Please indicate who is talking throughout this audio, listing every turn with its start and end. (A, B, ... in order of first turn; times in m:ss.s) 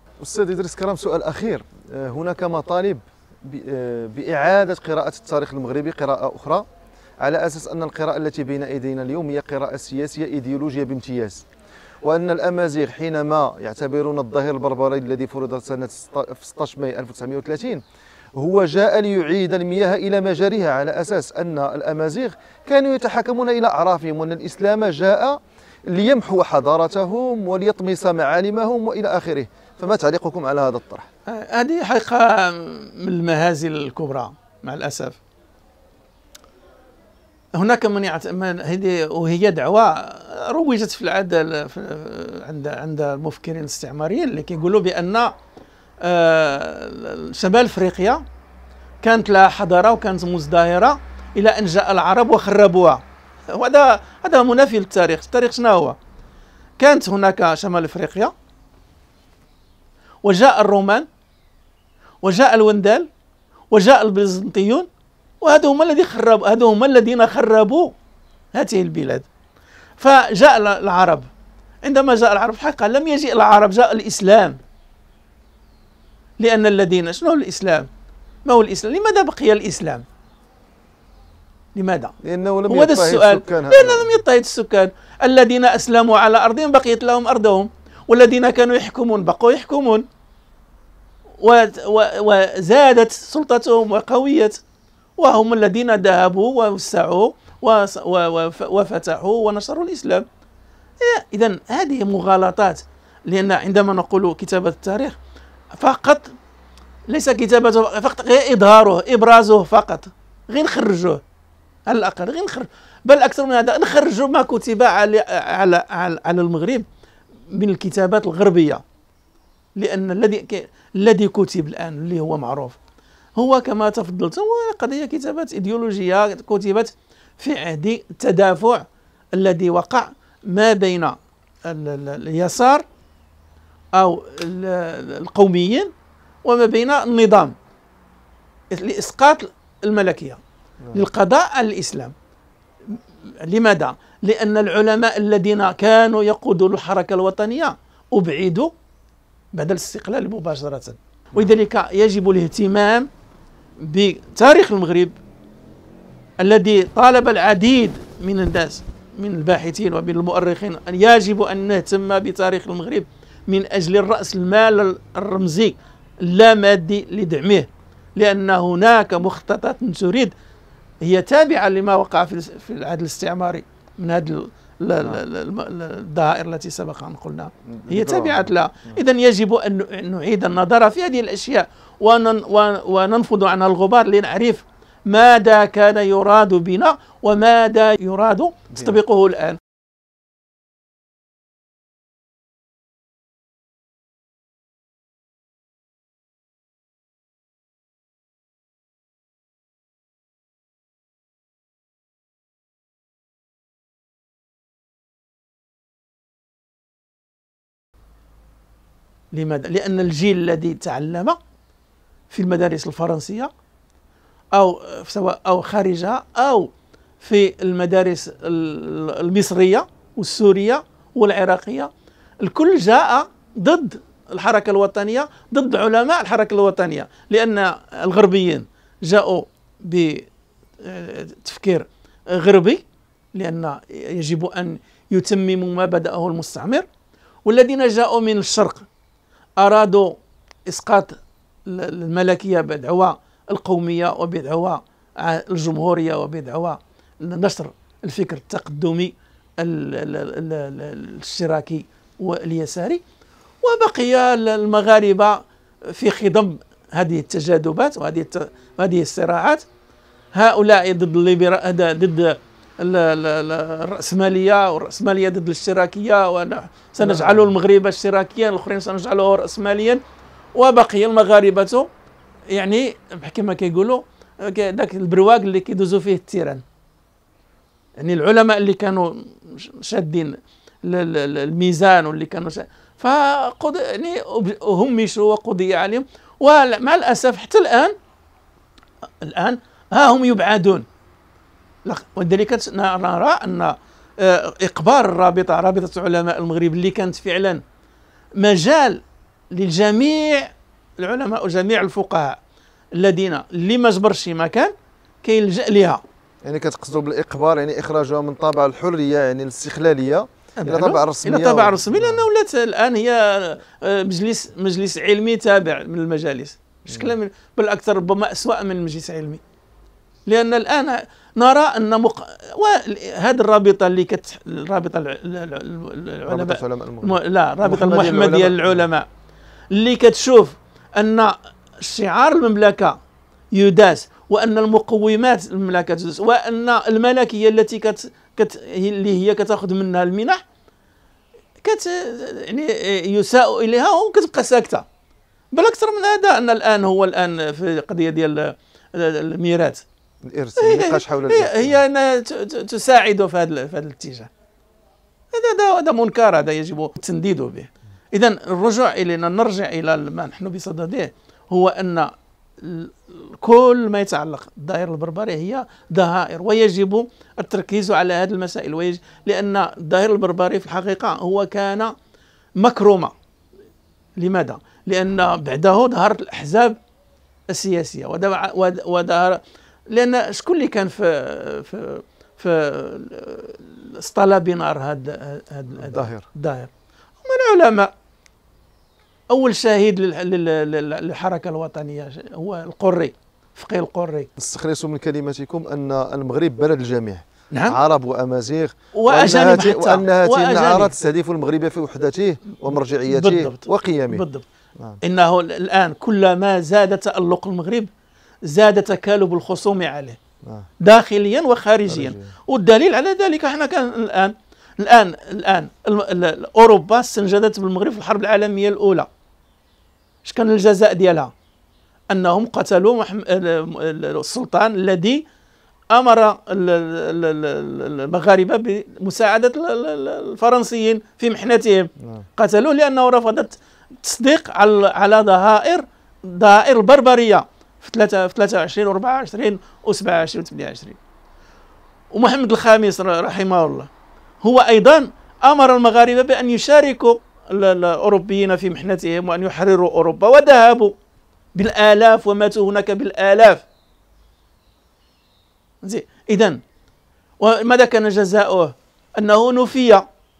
0:00.2-0:06.6 A
0:07.2-0:11.4 A
0:12.0-0:17.8 A
0:18.3-0:31.1 A
0:31.3-0:35.2 B
0:37.6-0:45.3 B
0:46.0-0:48.2 B
0:49.0-0:53.0 B
0:53.5-0:56.0 B
0:56.8-0:58.3 B
1:00.2-1:01.1 B
1:02.2-1:03.1 B
1:03.7-1:04.9 B
1:05.4-1:07.9 B
1:08.5-1:09.3 B
1:10.0-1:11.3 B
1:11.8-1:14.6 B
1:16.4-1:17.9 B
1:18.5-1:20.0 B
1:21.7-1:22.1 B
1:22.2-1:24.1 A
1:22.7-1:30.0 B
1:31.4-1:34.6 B
1:35.2-1:40.2 B
1:41.0-1:45.2 B
1:45.8-1:46.3 B
1:47.1-1:51.2 B
1:51.9-1:56.8 B
1:57.5-1:58.8 B
1:59.8-2:02.8 B
2:03.4-2:12.8 B
2:13.9-2:15.9 B
2:16.4-2:17.5 B
2:18.7-2:20.4 B
2:20.8-2:21.1 A
2:20.9-2:22.1 B
2:23.4-2:28.7 B
2:29.5-2:33.1 B
2:33.8-2:35.1 B
2:36.4-2:50.3 B
2:51.0-3:09.6 B
2:57.6-2:59.0 A
3:29.3-3:31.4 B
3:32.3-3:33.5 B
3:34.5-3:36.7 B
3:37.2-3:41.9 B
3:42.4-3:50.3 B
3:50.8-3:52.8 B
3:53.3-3:56.8 B
3:57.4-3:58.8 B
3:59.6-4:00.1 B
4:00.7-4:13.0 B
4:13.6-4:19.6 B
4:20.3-4:30.0 B
4:27.0-4:27.5 A
4:30.6-4:31.9 B
4:32.5-4:36.6 B
4:38.0-4:47.9 B
4:49.2-4:50.8 B
4:51.8-4:57.6 B
4:58.4-5:02.4 B
5:02.9-5:06.0 B
5:06.4-5:12.2 A
5:10.6-5:19.4 B
5:16.9-5:17.1 A
5:20.3-5:29.0 B
5:26.3-5:28.8 A
5:29.7-5:33.0 B
5:33.5-5:40.4 B
5:41.6-5:44.8 B
5:45.5-5:49.8 B
5:50.2-5:51.8 A
5:50.6-5:54.3 B
5:55.3-6:11.9 B
6:12.6-6:13.1 B
6:14.2-6:16.8 B
6:17.5-6:26.7 B
6:25.8-6:26.2 A
6:27.2-6:27.9 B
6:29.3-6:34.3 B
6:34.4-6:44.2 A
6:37.5-6:37.8 B
6:38.9-6:40.9 B
6:43.0-6:44.4 B
6:45.0-6:47.9 B
6:48.4-6:50.2 B
6:50.4-6:50.7 A
6:50.8-6:59.1 B
6:51.9-6:52.3 A
7:00.2-7:01.3 B
7:02.1-7:05.2 B
7:05.9-7:21.0 B
7:12.0-7:12.2 A
7:22.1-7:23.9 B
7:24.4-7:30.9 B
7:31.5-7:33.6 B
7:35.8-7:36.6 B
7:37.4-7:40.0 B